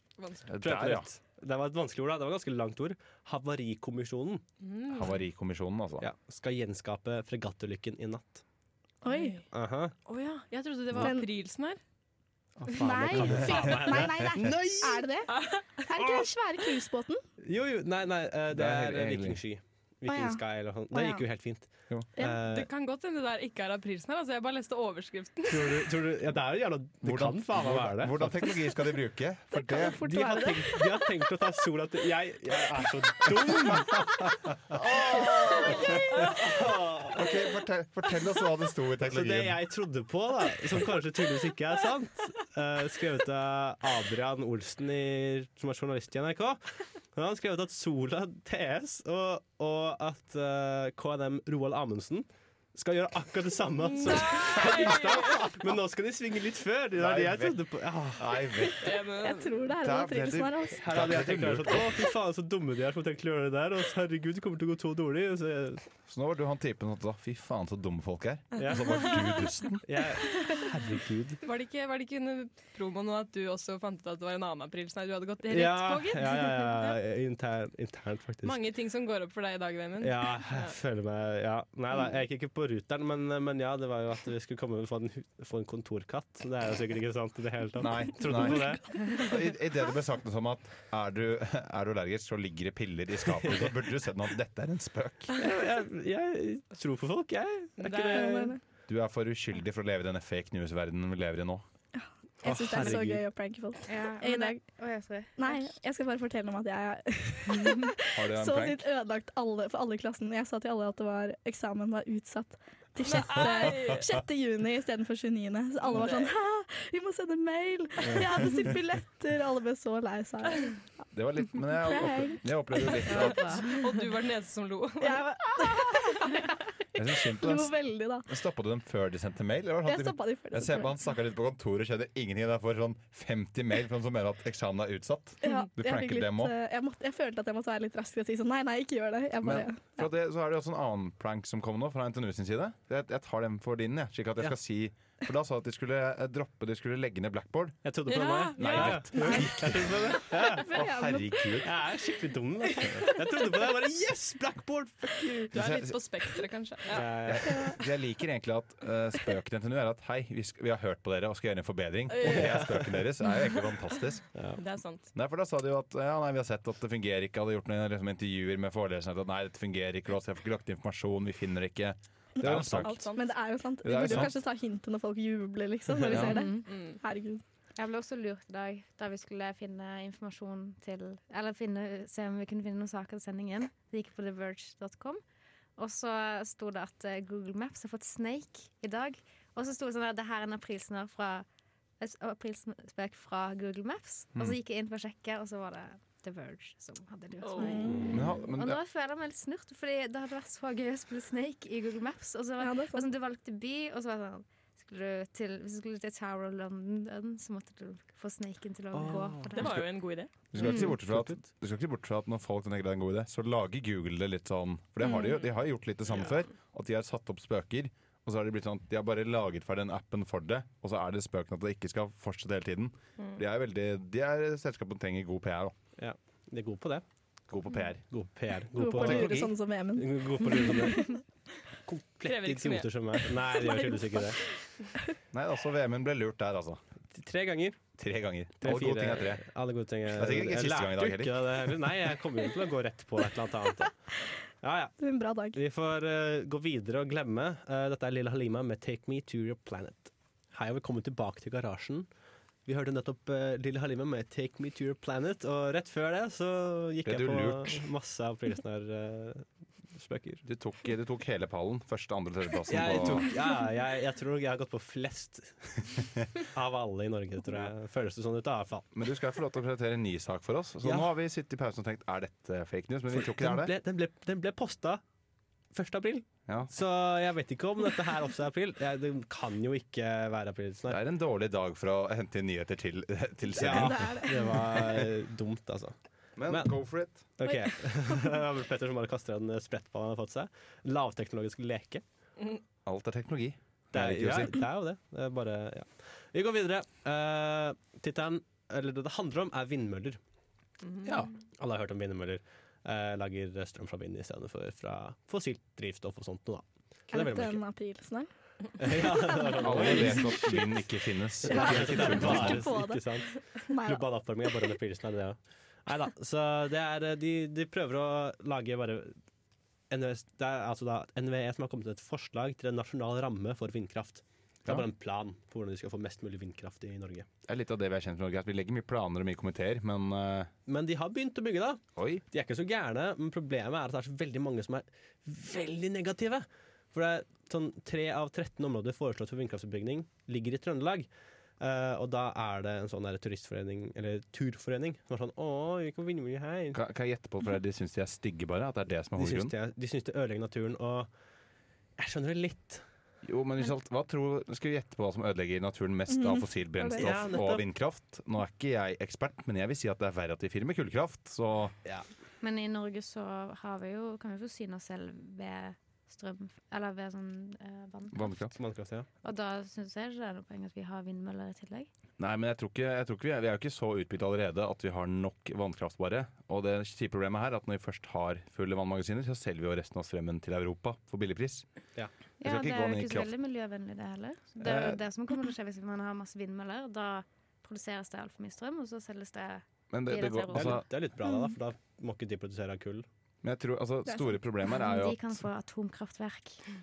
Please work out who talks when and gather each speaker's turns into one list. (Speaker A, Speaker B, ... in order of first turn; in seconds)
Speaker A: 0.2-0.5, 4.6-5.2, 9.1-9.4, 10.1-11.8, 15.3-15.8, 22.4-25.9, 54.0-55.5, 58.8-59.6, 71.4-77.0, 78.4-80.8, 97.8-98.4, 113.0-114.1, 116.0-116.3, 123.6-125.6, 148.1-149.1, 155.5-157.2, 162.2-162.7, 164.6-165.1, 172.6-173.3, 176.7-177.0, 197.4-197.8, 209.5-210.3, 232.2-233.2
Speaker B: 0.5-1.1, 4.9-6.1, 18.5-19.4, 27.0-30.0, 33.4-36.4, 37.1-39.6, 57.0-58.9, 59.8-61.9, 66.1-69.8, 87.8-95.3, 98.9-101.6, 108.1-108.8, 121.1-123.7, 127.0-127.7, 128.3-136.5, 139.4-147.8, 148.6-151.7, 155.5-156.0, 157.3-164.3, 165.2-173.1, 173.8-174.3, 176.1-176.4, 198.1-198.8, 210.5-225.7, 227.5-228.1, 229.0-229.6, 235.3-236.8, 238.0-239.4, 240.1-241.9, 257.1-257.9, 260.4-263.3, 268.9-273.7, 276.5-276.7, 280.9-284.2, 286.4-287.3, 292.9-294.6, 301.1-301.3, 309.6-312.7, 327.5-330.5, 332.0-332.2, 346.7-349.5, 353.2-361.8, 368.1-368.6, 372.2-381.7, 382.4-383.3, 384.6-385.0, 389.9-390.9, 393.4-395.4
Speaker C: 0.6-4.4, 6.0-8.4, 9.5-9.9, 12.6-15.1, 16.0-16.2, 17.4-22.7, 25.5-28.4, 30.0-34.2, 34.7-37.3, 39.0-58.7, 60.8-65.8, 68.6-69.1, 69.8-71.4, 75.5-78.6, 80.0-88.9, 93.4-93.7, 95.4-98.6, 102.4-103.2, 147.8-150.7, 151.6-155.6, 156.9-157.7, 162.2-163.0, 164.3-164.6, 197.8-198.2, 208.9-209.9, 210.5-211.4, 226.0-227.0, 228.1-229.4, 229.9-231.2, 231.9-234.4, 237.1-237.8, 238.6-243.9, 244.6-245.0, 245.5-252.1, 252.7-260.4, 262.7-268.9, 270.8-271.1, 273.1-275.0, 275.7-281.0, 283.6-286.0, 286.5-292.0, 293.9-300.2, 301.6-307.6, 308.8-310.7, 311.4-319.2, 319.9-327.3, 330.7-346.8, 349.2-351.1, 352.0-352.8, 356.9-357.6, 368.6-369.1, 390.5-393.1
Speaker D: 9.0-9.4, 10.9-11.3, 12.7-17.2, 20.1-21.2, 29.5-31.1, 59.2-60.9, 88.9-89.2, 98.1-98.6, 102.0-104.6, 105.4-120.8, 121.8-123.8, 125.0-128.3, 129.8-131.0, 135.4-140.1, 149.2-149.6, 150.3-151.7, 152.8-153.2, 157.5-157.8, 172.4-177.4, 197.6-198.2, 202.6-203.1, 228.8-231.2, 233.6-234.5, 245.0-245.6, 283.6-284.7, 307.1-310.6, 311.5-314.1, 356.1-357.1
Speaker E: 103.9-105.5, 123.1-123.8, 176.2-176.7, 177.8-185.2, 185.8-191.5, 192.0-209.8, 210.6-210.9, 362.4-368.4, 369.2-371.9, 382.4-390.8, 394.8-396.7